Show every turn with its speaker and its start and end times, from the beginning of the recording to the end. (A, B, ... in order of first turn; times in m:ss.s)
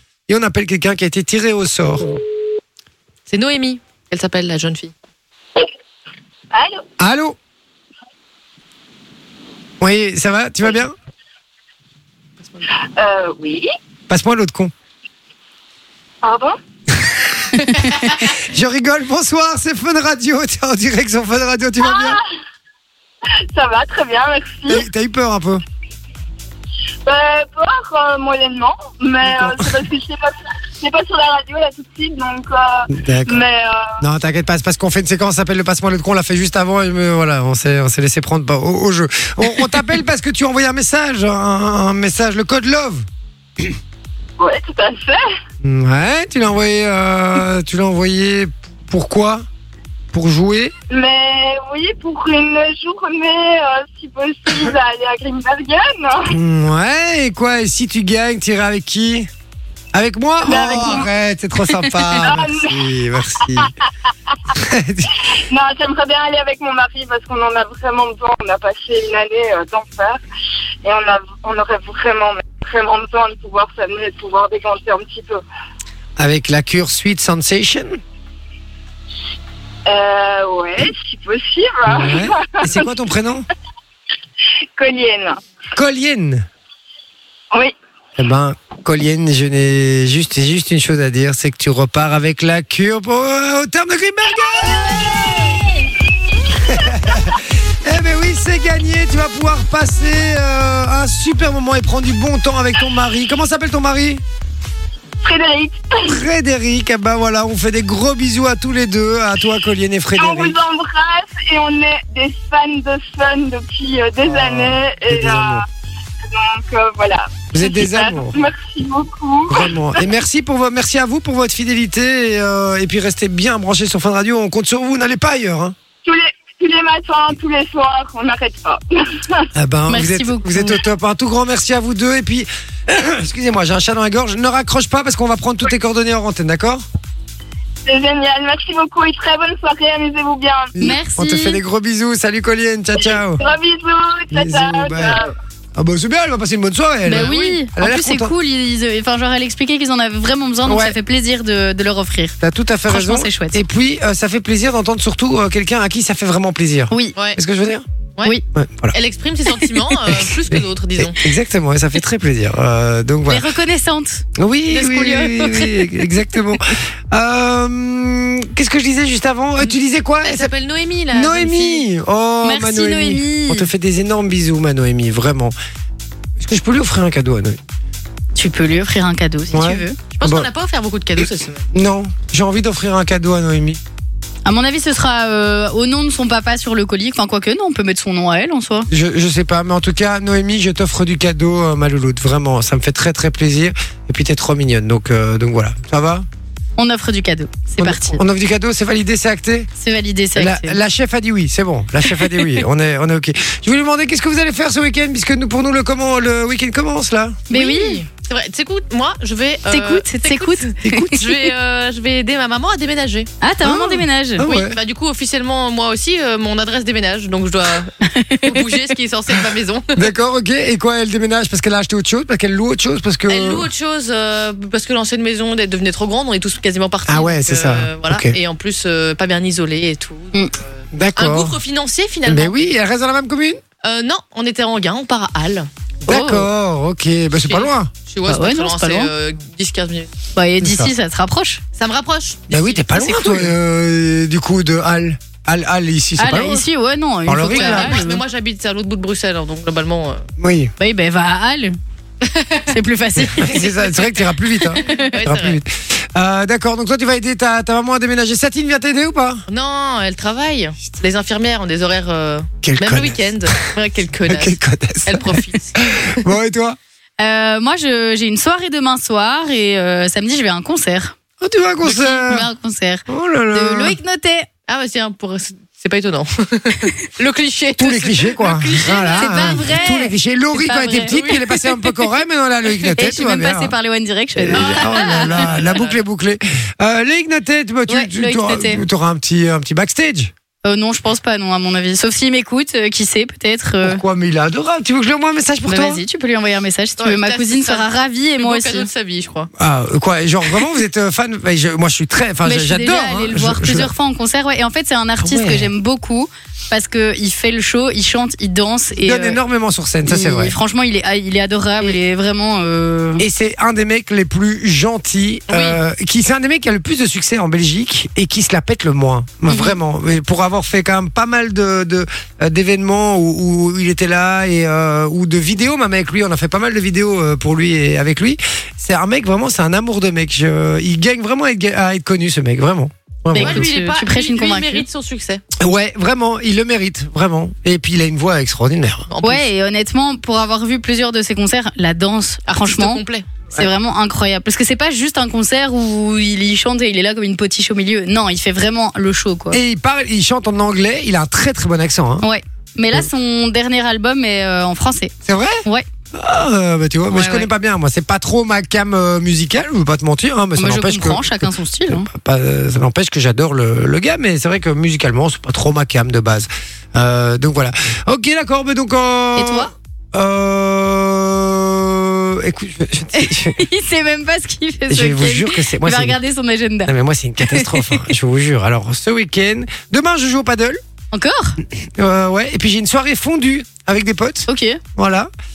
0:00.3-0:02.1 A
0:03.3-0:04.9 B
0:06.5-0:06.8 C
0:07.0-0:07.4 A
0:09.8-0:10.9 A
0:12.8-0:13.7 C
0:14.1-0:14.7 A
0:16.2-0:16.6 C
0:16.9-0:17.6 A
0:18.2-0:22.2 A
0:21.8-0:22.2 C
0:23.5-0:24.8 C
0:24.7-0:25.6 A
0:27.1-0:33.9 C
0:29.2-0:29.7 A
0:32.9-0:33.4 A
0:34.0-0:43.1 A
0:44.4-0:45.2 C
0:45.6-0:49.4 A
0:50.1-0:50.7 A
0:50.9-0:56.3 C
0:56.3-0:59.3 A
0:59.9-1:03.7 A
1:00.4-1:01.1 C
1:02.1-1:02.7 C
1:04.5-1:05.2 A
1:05.3-1:10.2 C
1:10.8-1:15.4 C
1:16.2-1:18.0 A
1:19.9-1:22.9 C
1:21.9-1:23.5 A
1:24.8-1:25.4 C
1:25.7-1:26.5 A
1:28.2-1:35.4 A
1:34.6-1:35.9 C
1:36.6-1:37.2 C
1:36.6-1:44.2 A
1:45.2-1:46.1 C
1:46.0-1:50.6 A
1:50.2-1:55.6 C
1:54.2-1:55.6 A
1:56.3-2:00.0 C
1:57.5-1:58.4 A
1:59.5-2:05.8 A
2:06.0-2:09.5 C
2:09.6-2:16.8 A
2:09.9-2:10.8 D
2:17.8-2:20.7 C
2:20.8-2:23.4 A
2:20.8-2:21.6 D
2:23.0-2:25.3 C
2:24.3-2:25.2 A
2:25.8-2:28.3 A
2:27.0-2:32.4 D
2:27.1-2:27.6 B
2:30.7-2:31.0 A
2:32.4-2:37.9 A
2:32.9-2:33.6 D
2:38.5-2:39.0 A
2:38.9-2:41.2 B
2:40.1-2:43.4 A
2:43.3-2:45.9 D
2:44.4-2:50.5 A
2:50.2-2:51.8 B
2:51.1-2:55.5 A
2:52.4-2:53.7 D
2:56.4-2:57.6 A
2:58.4-3:00.0 D
2:59.5-3:00.5 A
3:00.1-3:01.7 B
3:01.2-3:03.8 A
3:04.4-3:08.9 D
3:08.9-3:16.3 A
3:16.8-3:18.2 D
3:17.8-3:19.7 A
3:19.8-3:20.8 D
3:20.4-3:27.4 A
3:27.5-3:28.0 D
3:27.5-3:33.3 B
3:29.7-3:31.2 D
3:30.8-3:31.2 A
3:33.4-3:34.4 D
3:33.6-3:34.8 A
3:34.4-3:40.0 B
3:38.0-3:38.6 D
3:40.0-3:43.7 A
3:43.3-3:52.5 B
3:47.1-3:48.4 A
3:50.9-3:51.6 A
3:52.3-3:53.6 A
3:53.8-3:55.7 B
3:56.1-3:56.4 D
3:56.1-3:57.9 A
3:57.5-4:00.1 B
3:58.3-3:59.1 D
4:00.4-4:01.6 D
4:00.6-4:00.9 A
4:01.8-4:03.5 B
4:02.5-4:06.6 A
4:06.2-4:08.2 D
4:07.3-4:08.0 A
4:07.5-4:10.2 B
4:10.4-4:10.7 A
4:10.8-4:11.8 D
4:12.2-4:12.7 B
4:12.7-4:13.6 D
4:13.2-4:19.4 A
4:13.9-4:14.3 B
4:14.9-4:15.6 B
4:19.5-4:25.8 B
4:22.6-4:23.6 A
4:24.3-4:26.8 A
4:27.2-4:31.2 D
4:31.4-4:32.5 A
4:31.8-4:34.5 D
4:33.1-4:34.0 A
4:34.7-4:39.8 B
4:37.8-4:43.7 A
4:39.1-4:41.2 D
4:41.1-4:41.9 B
4:43.0-4:45.6 D
4:44.4-4:50.3 A
4:44.5-4:46.0 B
4:47.9-4:48.8 D
4:50.6-4:54.0 D
4:53.8-4:56.0 A
4:55.7-4:58.9 D
4:57.0-4:59.5 B
4:59.6-5:03.9 A
5:02.4-5:09.4 D
5:05.2-5:05.7 A
5:09.0-5:10.6 A
5:10.1-5:13.2 D
5:13.2-5:33.7 A
5:15.5-5:15.8 B
5:19.5-5:19.8 D
5:33.3-5:34.8 D
5:33.3-5:35.4 B
5:35.6-5:39.1 A
5:39.1-5:39.5 B
5:39.2-5:43.0 D
5:42.5-5:43.3 B
5:43.6-5:49.6 D
5:49.5-5:52.3 A
5:52.2-5:55.1 D
5:55.2-6:13.6 A
5:57.1-5:57.5 D
6:00.6-6:02.1 D
6:09.4-6:09.7 D
6:13.2-6:18.0 D
6:14.9-6:16.2 A
6:16.9-6:20.8 A
6:21.1-6:21.6 D
6:21.8-6:25.3 A
6:24.5-6:24.8 D